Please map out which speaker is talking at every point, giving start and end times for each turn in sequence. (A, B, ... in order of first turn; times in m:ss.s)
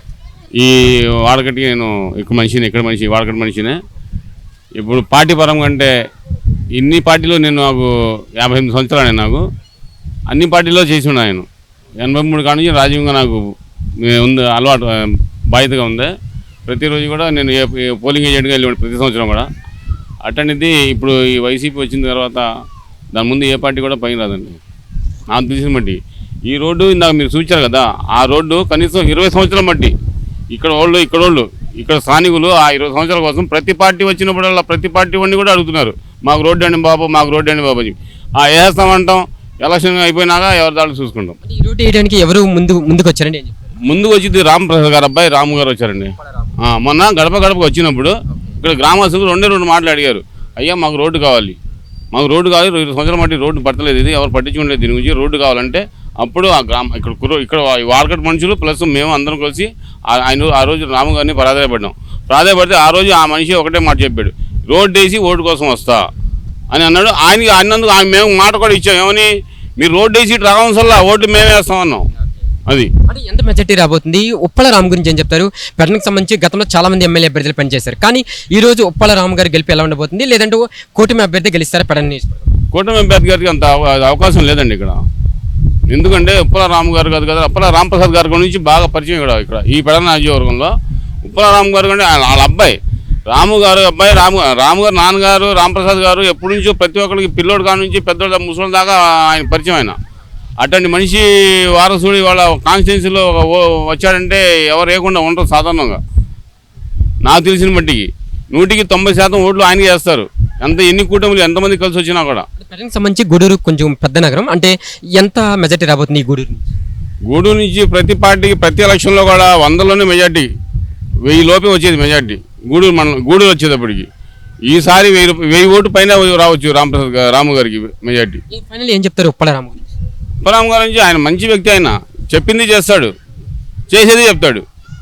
0:00.6-0:03.8 A
0:04.8-0:05.9 A
0:06.7-0:09.4 A
0:10.3-0:11.5 A
0:12.0-0:16.1 A
0:16.7-0:19.5 A
0:20.2-0:22.5 A
0:23.1-0:24.6 A
0:25.3-0:29.9 A
0:30.5-0:41.4 A
0:41.4-0:43.7 B
0:43.8-0:51.6 A
0:52.1-1:06.0 A
1:06.7-1:12.1 A
1:13.1-1:22.5 B
1:22.7-1:25.0 A
1:25.9-1:30.7 A
1:31.2-1:32.8 A
1:33.3-1:40.0 A
1:40.6-1:46.0 A
1:47.2-1:52.4 A
1:52.6-1:56.7 B
1:57.3-2:00.5 A
2:01.2-2:04.1 A
2:04.7-2:08.4 A
2:08.5-2:09.9 B
2:10.4-2:13.1 A
2:13.9-2:14.6 A